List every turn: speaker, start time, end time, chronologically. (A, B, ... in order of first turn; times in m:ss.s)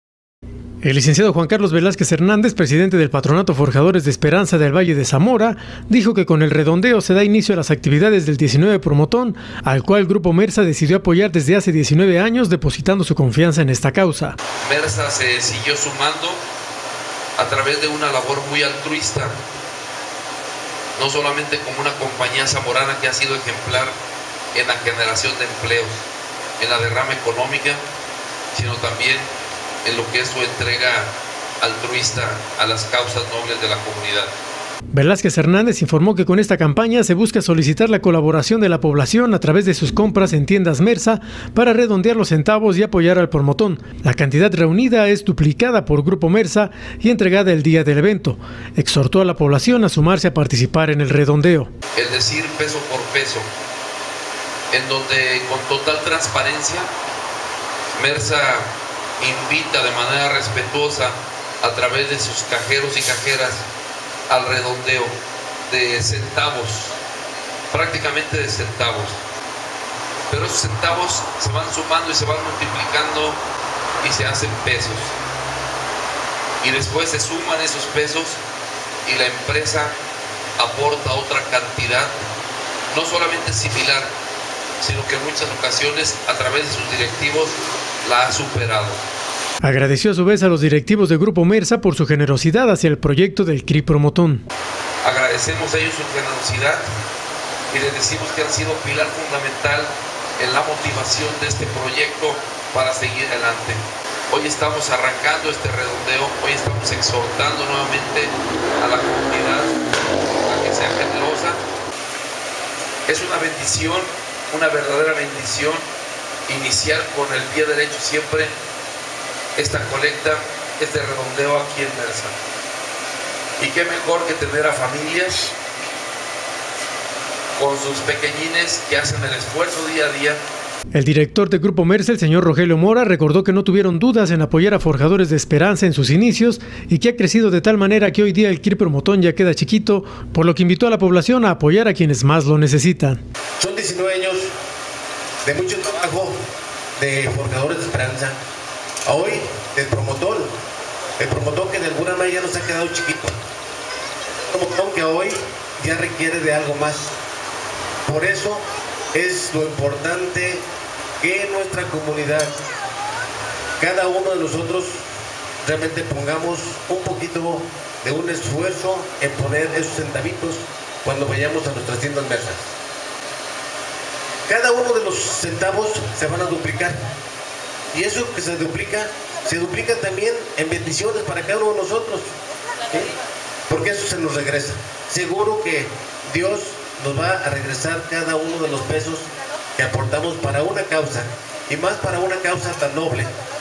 0:00.8-0:14.4 A
0:14.6-0:16.4 B
0:17.4-0:19.4 B
0:21.0-0:24.0 B
0:24.5-0:26.0 B
0:26.6-0:27.8 B
0:28.5-0:29.3 B
0:29.8-0:34.3 B
0:34.9-0:51.7 A
0:51.9-0:53.5 B
0:54.7-0:56.9 B
0:57.9-1:03.6 B
1:04.3-1:05.1 B
1:05.7-1:07.0 B
1:07.7-1:09.2 B
1:10.3-1:13.4 B
1:14.0-1:15.2 B
1:16.6-1:18.4 B
1:19.0-1:19.9 B
1:20.6-1:22.3 B
1:22.9-1:24.1 B
1:24.8-1:29.0 B
1:29.6-1:34.4 A
1:35.0-1:36.9 B
1:37.7-1:49.8 B
1:50.3-1:51.6 B
1:53.1-1:55.8 B
1:56.5-1:58.5 B
1:59.6-2:02.3 B
2:03.6-2:05.5 B
2:07.6-2:10.4 B
2:10.9-2:23.2 A
2:23.6-2:24.5 C
2:25.4-2:26.3 C
2:27.0-2:28.4 C
2:29.0-2:30.5 C
2:31.2-2:33.3 C
2:34.5-2:37.1 C
2:38.0-2:40.6 C
2:41.2-2:42.5 C
2:43.8-2:45.0 C
2:45.6-2:52.7 C
2:54.5-2:57.0 C
2:57.9-3:02.3 C
3:02.9-3:03.1 C
3:03.7-3:13.3 C